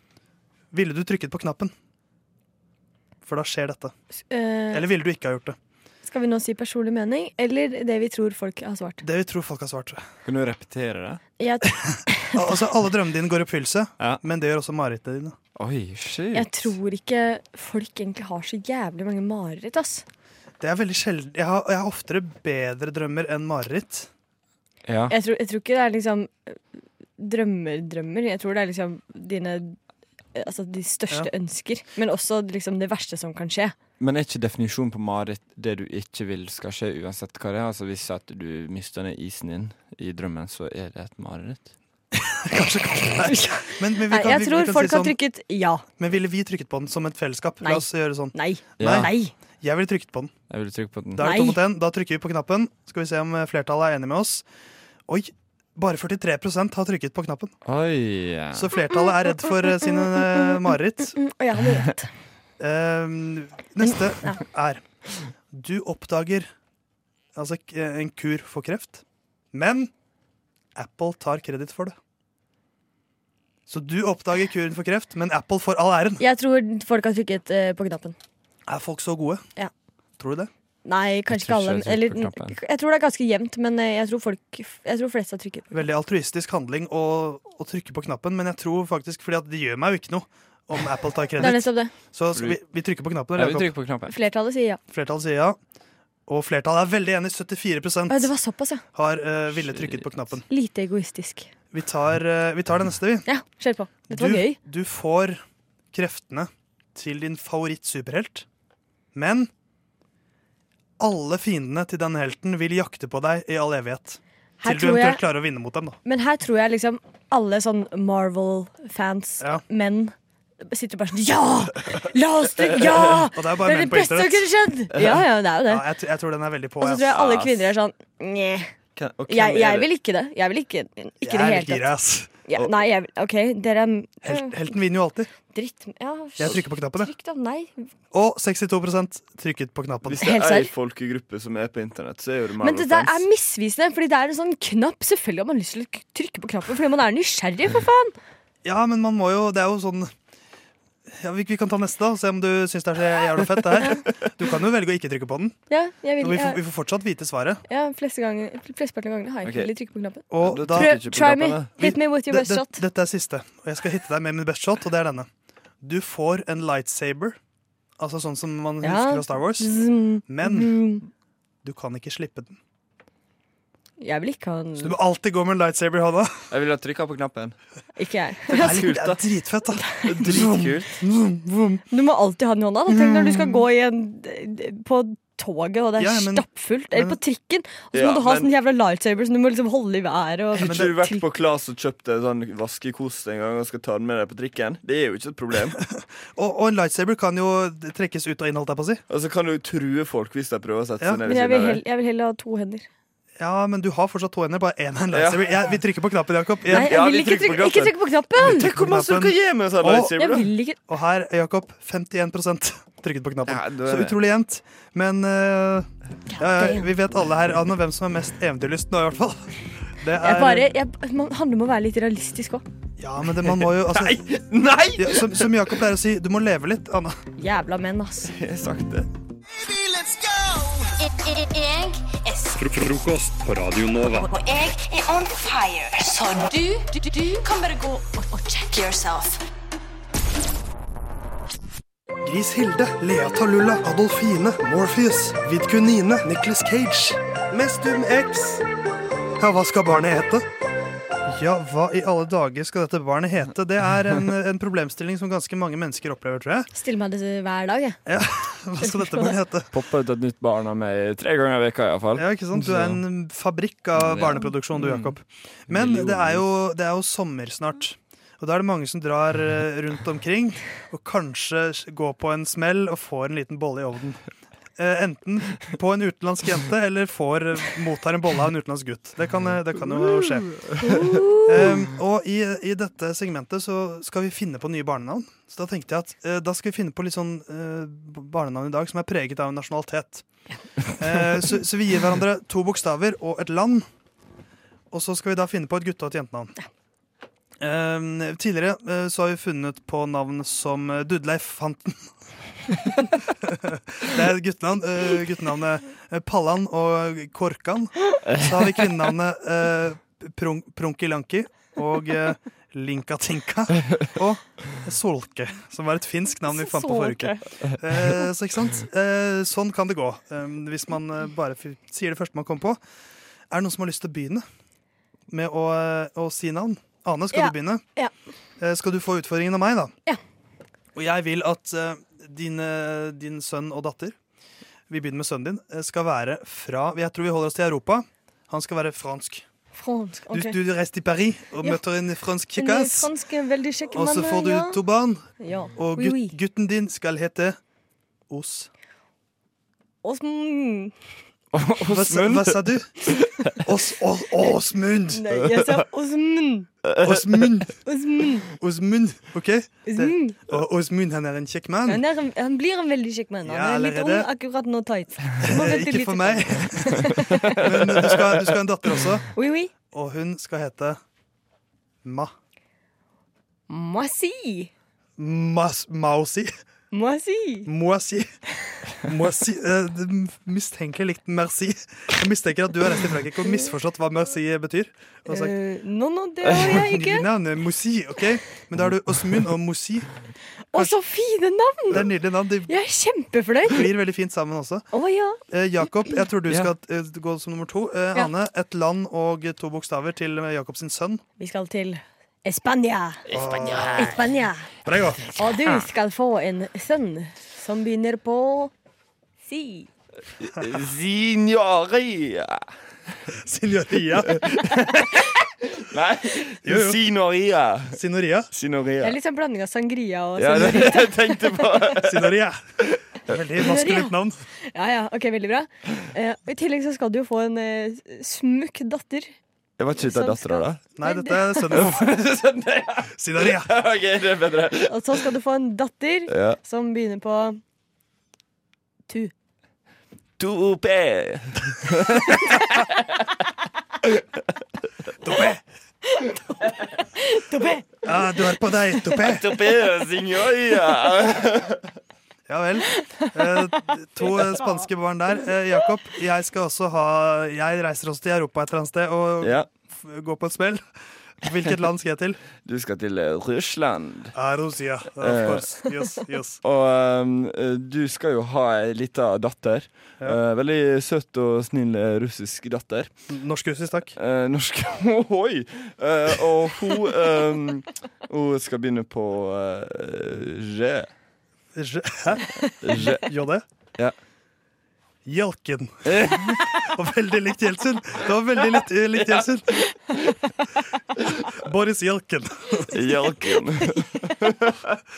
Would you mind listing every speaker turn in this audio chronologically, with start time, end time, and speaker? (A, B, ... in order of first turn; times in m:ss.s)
0:00.7-0:01.7 A
0:03.2-0:03.9 A
0:04.3-0:04.9 B
0:04.7-0:05.6 A
0:06.0-0:09.0 B
0:09.0-0:10.0 A
0:10.2-0:11.2 C
0:11.4-0:12.6 B
0:11.8-0:15.3 A
0:15.6-0:16.7 C
0:16.3-0:20.0 B
0:20.6-0:24.1 A
0:24.8-0:25.1 C
0:25.1-0:26.5 B
0:27.2-0:29.8 B
0:30.4-0:33.7 B
0:34.0-0:41.7 C
0:42.2-0:45.2 A
0:43.3-0:45.8 B
0:46.0-0:50.3 A
0:47.6-0:49.3 B
0:48.8-0:49.1 C
0:50.5-0:51.3 C
0:51.2-0:54.4 A
0:51.2-0:51.6 B
0:55.1-0:57.5 A
0:57.6-0:58.7 C
0:58.5-1:01.2 A
0:58.9-1:02.1 B
1:02.6-1:04.8 A
1:03.8-1:04.4 B
1:05.5-1:06.5 A
1:07.3-1:09.0 A
1:09.5-1:09.9 A
1:10.8-1:11.9 A
1:13.7-1:16.2 A
1:16.2-1:18.2 B
1:18.7-1:19.4 A
1:20.2-1:20.5 A
1:20.8-1:25.8 B
1:21.3-1:22.6 C
1:25.7-1:33.7 A
1:31.4-1:31.9 B
1:32.3-1:32.6 C
1:33.3-1:34.1 C
1:34.1-1:34.8 B
1:34.9-1:35.6 A
1:36.3-1:38.3 A
1:38.1-1:38.8 B
1:38.9-1:40.4 A
1:39.5-1:40.1 C
1:40.5-1:41.5 B
1:41.7-1:43.3 A
1:43.2-1:44.6 B
1:44.0-1:45.4 A
1:45.9-1:48.4 A
1:49.1-1:49.5 A
1:51.0-1:56.0 A
1:54.6-1:55.2 B
1:56.0-2:00.1 B
2:00.7-2:05.9 B
2:03.3-2:04.5 A
2:05.6-2:07.1 A
2:06.8-2:08.7 B
2:07.0-2:07.6 C
2:09.0-2:09.9 C
2:09.3-2:11.9 B
2:11.2-2:12.4 A
2:12.4-2:14.7 B
2:14.2-2:15.3 A
2:15.5-2:17.9 B
2:16.4-2:17.1 A
2:18.1-2:20.2 A
2:20.0-2:23.2 C
2:20.2-2:20.7 B
2:22.6-2:28.1 B
2:28.6-2:30.1 A
2:31.2-2:35.6 A
2:35.7-2:36.6 B
2:36.2-2:37.6 A
2:37.7-2:42.8 B
2:40.3-2:41.0 A
2:40.3-2:41.8 C
2:41.7-2:45.3 A
2:45.8-2:47.4 A
2:48.0-2:49.7 A
2:48.8-2:51.0 B
2:50.2-2:50.7 A
2:51.6-2:52.6 A
2:54.0-2:55.0 B
2:54.8-2:56.4 A
2:56.5-2:57.6 C
2:58.0-2:59.0 B
2:58.5-3:01.8 A
2:58.5-2:59.2 C
2:59.9-3:00.2 B
3:00.0-3:01.0 C
3:01.9-3:11.2 B
3:03.0-3:03.6 A
3:06.0-3:07.2 A
3:07.9-3:08.5 C
3:10.5-3:15.8 C
3:10.6-3:11.0 A
3:15.7-3:19.0 A
3:19.1-3:21.8 C
3:21.2-3:22.8 B
3:23.4-3:26.9 A
3:25.1-3:25.6 C
3:26.7-3:28.8 B
3:26.7-3:30.5 C
3:28.5-3:30.1 A
3:30.1-3:30.8 B
3:30.9-3:35.9 A
3:33.4-3:34.2 C
3:36.4-3:39.4 A
3:36.4-3:36.9 B
3:40.0-3:40.7 A
3:40.2-3:42.6 B
3:43.0-3:44.2 A
3:43.4-3:45.6 C
3:45.0-3:47.2 A
3:47.4-3:48.3 B
3:48.3-3:49.1 C
3:49.6-3:50.9 D
3:51.2-3:52.7 E
3:52.6-3:54.2 D
3:54.1-3:59.4 E
4:02.2-4:08.6 A
4:09.4-4:10.4 A
4:11.3-4:16.7 A
4:16.7-4:18.0 B
4:18.0-4:19.7 A
4:18.8-4:19.4 B
4:19.7-4:23.0 C
4:22.2-4:34.2 A
4:23.9-4:25.2 C
4:25.7-4:26.4 C
4:34.8-4:40.6 A
4:40.8-4:41.8 B
4:41.4-4:50.2 A
4:51.0-4:53.8 A
4:54.9-4:56.5 A
4:57.6-5:02.1 A
5:02.7-5:22.8 A
5:16.4-5:17.4 B
5:23.5-5:24.4 A
5:25.3-5:27.8 A
5:27.3-5:28.1 B
5:28.6-5:29.9 A
5:30.9-5:34.1 A
5:34.9-5:39.4 A
5:39.7-5:40.6 B
5:40.3-5:43.1 A
5:42.5-5:44.8 B
5:43.9-5:47.6 A
5:45.4-5:46.4 B
5:48.3-5:48.7 A
5:50.0-5:50.9 B
5:51.5-5:53.5 C
5:51.9-5:52.9 A
5:53.6-5:55.2 A
5:55.1-5:56.7 B
5:56.8-5:57.6 C
5:57.0-5:57.7 A
5:57.8-5:58.5 B
5:58.6-6:02.0 A
5:59.8-6:00.4 B
6:01.8-6:07.8 B
6:03.4-6:04.3 A
6:05.4-6:06.9 A
6:07.6-6:09.3 A
6:07.6-6:08.4 C
6:09.3-6:09.7 B
6:09.9-6:11.0 A
6:12.0-6:12.3 A
6:13.7-6:14.7 B
6:15.2-6:16.5 A
6:16.9-6:17.7 B
6:17.6-6:18.3 A
6:19.0-6:25.5 A
6:23.4-6:23.7 B
6:25.3-6:27.3 B
6:26.7-6:30.1 A
6:30.7-6:32.1 B
6:31.9-6:32.7 A
6:32.7-6:33.9 B
6:33.8-6:34.9 A
6:34.9-6:36.3 B
6:35.5-6:41.2 A
6:36.5-6:36.7 C
6:41.4-6:44.7 B
6:43.3-6:44.2 C
6:43.3-6:44.0 A
6:44.8-6:45.2 A
6:45.2-6:48.7 B
6:45.3-6:45.7 C
6:49.4-6:49.9 B
6:50.4-6:53.2 C
6:53.4-6:54.4 A
6:54.3-6:55.2 C
6:55.7-6:58.0 C
6:56.6-6:57.0 A
6:57.9-6:58.5 A
6:58.5-6:59.2 C
6:59.0-7:02.0 B
7:00.4-7:02.4 C
7:02.1-7:02.7 A
7:03.3-7:04.4 A
7:03.5-7:04.2 B
7:04.7-7:09.3 B
7:09.8-7:10.8 C
7:10.0-7:11.8 B
7:10.9-7:12.1 A
7:11.7-7:14.9 C
7:13.2-7:13.7 A
7:14.9-7:17.6 B
7:16.3-7:16.6 C
7:20.4-7:23.2 C
7:25.2-7:25.6 A
7:26.2-7:29.4 B
7:28.0-7:29.5 A
7:29.2-7:31.8 C
7:32.5-7:40.8 A
7:32.8-7:36.0 B
7:39.4-7:39.7 C
7:41.4-7:42.4 A
7:42.6-7:44.3 C
7:44.3-7:46.6 A
7:45.2-7:45.7 C
7:46.6-7:53.1 C
7:53.3-7:54.1 A
7:54.2-8:01.1 C
8:01.8-8:02.4 A
8:02.8-8:03.3 C
8:03.1-8:03.6 A
8:05.2-8:09.7 A
8:06.1-8:06.7 C
8:11.6-8:12.9 A
8:12.9-8:15.0 C